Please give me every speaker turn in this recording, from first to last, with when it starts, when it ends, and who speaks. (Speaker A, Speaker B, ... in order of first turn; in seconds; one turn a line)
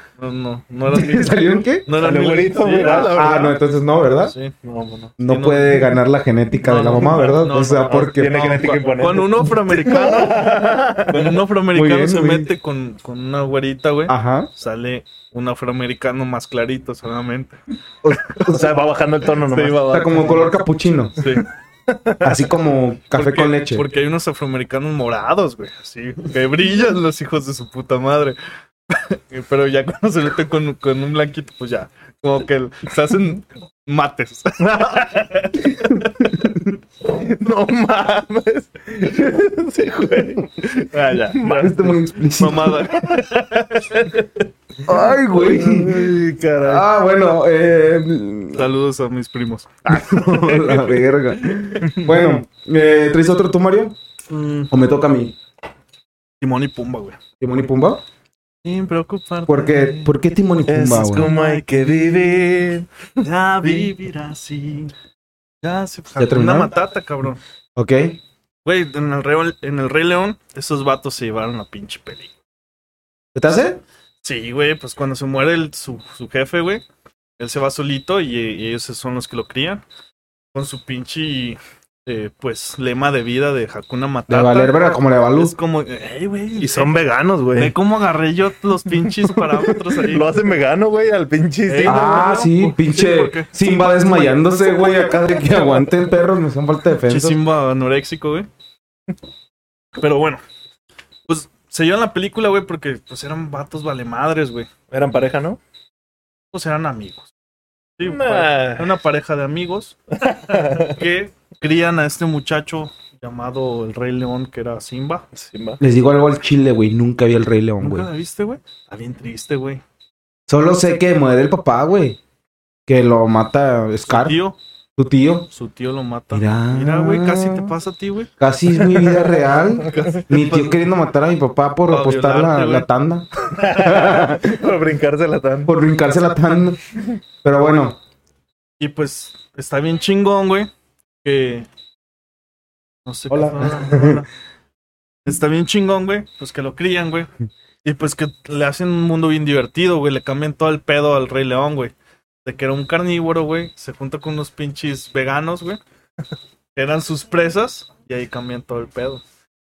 Speaker A: 0.2-3.5
Speaker B: 0.9-1.9
Speaker C: 1.9-3.6
Speaker B: 2.8-4.3
Speaker A: 4.2-4.5
Speaker C: 4.6-5.1
Speaker B: 5.2-8.4
Speaker A: 5.2-5.9
Speaker A: 6.6-10.5
Speaker C: 7.9-11.4
Speaker A: 11.1-17.6
Speaker B: 11.7-12.5
Speaker B: 14.1-14.5
Speaker B: 18.0-18.6
Speaker C: 18.4-20.0
Speaker A: 19.4-20.5
Speaker B: 19.9-21.3
Speaker A: 21.2-21.5
Speaker C: 21.9-22.3
Speaker B: 22.2-23.8
Speaker A: 23.1-28.4
Speaker A: 28.9-36.4
Speaker C: 34.6-35.1
Speaker C: 37.0-40.7
Speaker A: 40.7-41.8
Speaker C: 41.3-41.9
Speaker B: 41.4-42.9
Speaker A: 42.4-44.3
Speaker C: 42.9-43.6
Speaker B: 44.9-48.6
Speaker C: 45.3-46.9
Speaker A: 48.5-50.9
Speaker B: 49.9-54.0
Speaker A: 51.8-52.3
Speaker A: 54.3-54.7
Speaker B: 54.7-55.4
Speaker A: 56.4-57.2
Speaker B: 57.4-58.0
Speaker A: 58.6-60.1
Speaker B: 59.5-61.3
Speaker C: 60.7-62.9
Speaker A: 61.0-62.4
Speaker A: 63.2-64.9
Speaker C: 63.6-63.9
Speaker A: 65.6-67.4
Speaker B: 66.2-66.7
Speaker B: 67.8-68.2
Speaker A: 68.6-72.3
Speaker B: 73.3-73.8
Speaker A: 74.2-76.8
Speaker A: 77.4-79.8
Speaker A: 80.5-87.0
Speaker B: 84.3-85.5
Speaker C: 86.6-87.7
Speaker A: 87.5-90.3
Speaker C: 90.0-92.1
Speaker A: 91.7-93.5
Speaker B: 91.8-97.4
Speaker A: 97.1-98.5
Speaker A: 99.9-100.4
Speaker A: 101.3-104.7
Speaker C: 104.9-105.6
Speaker A: 106.5-107.3
Speaker A: 108.0-110.0
Speaker C: 108.0-108.9
Speaker C: 110.2-111.0
Speaker A: 110.5-115.2
Speaker C: 115.3-115.8
Speaker B: 115.8-118.1
Speaker A: 117.8-119.8
Speaker B: 120.5-122.2
Speaker B: 122.9-124.4
Speaker A: 124.0-124.6
Speaker B: 125.0-125.5
Speaker A: 125.5-129.3
Speaker B: 126.3-127.7
Speaker B: 128.4-134.6
Speaker A: 129.8-130.8
Speaker A: 131.9-132.9
Speaker C: 133.5-135.7
Speaker B: 135.7-136.8
Speaker B: 137.4-138.0
Speaker A: 138.8-140.7
Speaker A: 141.2-141.7
Speaker A: 143.1-144.3
Speaker B: 143.3-144.2
Speaker A: 145.2-147.3
Speaker A: 147.8-151.9
Speaker A: 152.4-155.8
Speaker A: 156.7-159.2